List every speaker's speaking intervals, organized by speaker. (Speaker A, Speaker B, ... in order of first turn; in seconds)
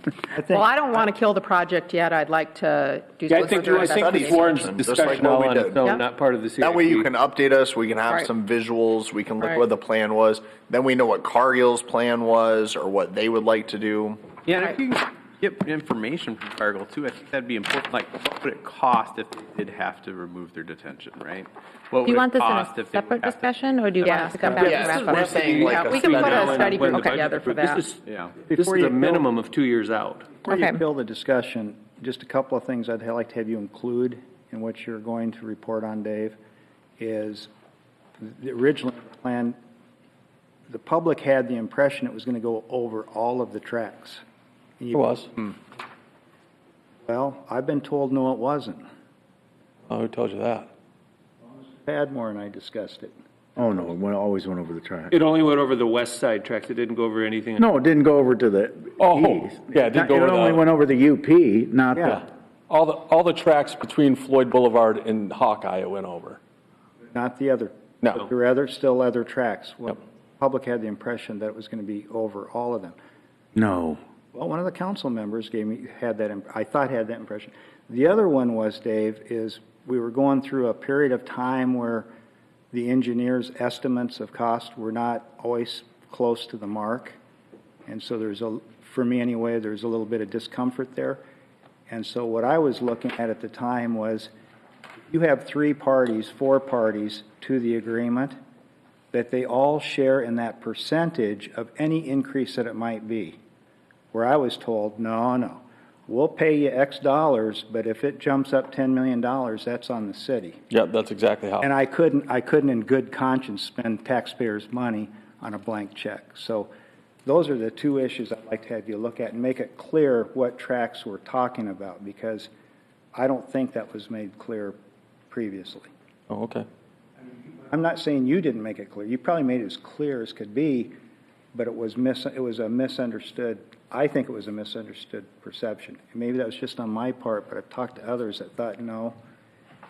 Speaker A: 0.3-0.7, 28.5-29.2, 30.4-36.4, 37.0-37.5, 38.2-39.5, 40.7-44.2, 44.8-45.5, 47.0-48.8, 51.8-53.1, 61.9-62.2, 67.1-73.0, 74.3-82.1, 82.7-87.2, 87.9-91.2, 91.9-94.3, 95.1-98.3, 99.1-103.4, 104.1-110.6, 111.6-116.7, 117.2-122.5, 123.1-124.8, 125.3-125.9, 127.3-130.9, 131.5-139.1
Speaker B: 0.5-4.5, 24.0-24.4, 25.4-27.8
Speaker C: 3.3-7.1, 25.2-30.3, 55.1-57.6
Speaker D: 3.4-14.3, 24.6-27.0
Speaker E: 14.4-23.5, 28.1-28.3
Speaker F: 22.0-26.5, 30.5-30.8
Speaker G: 44.9-45.3, 49.9-50.7, 59.0-60.6, 62.0-66.4, 110.7-111.7, 126.3-126.7
Speaker H: 53.6-55.1, 57.6-62.2, 73.5-74.0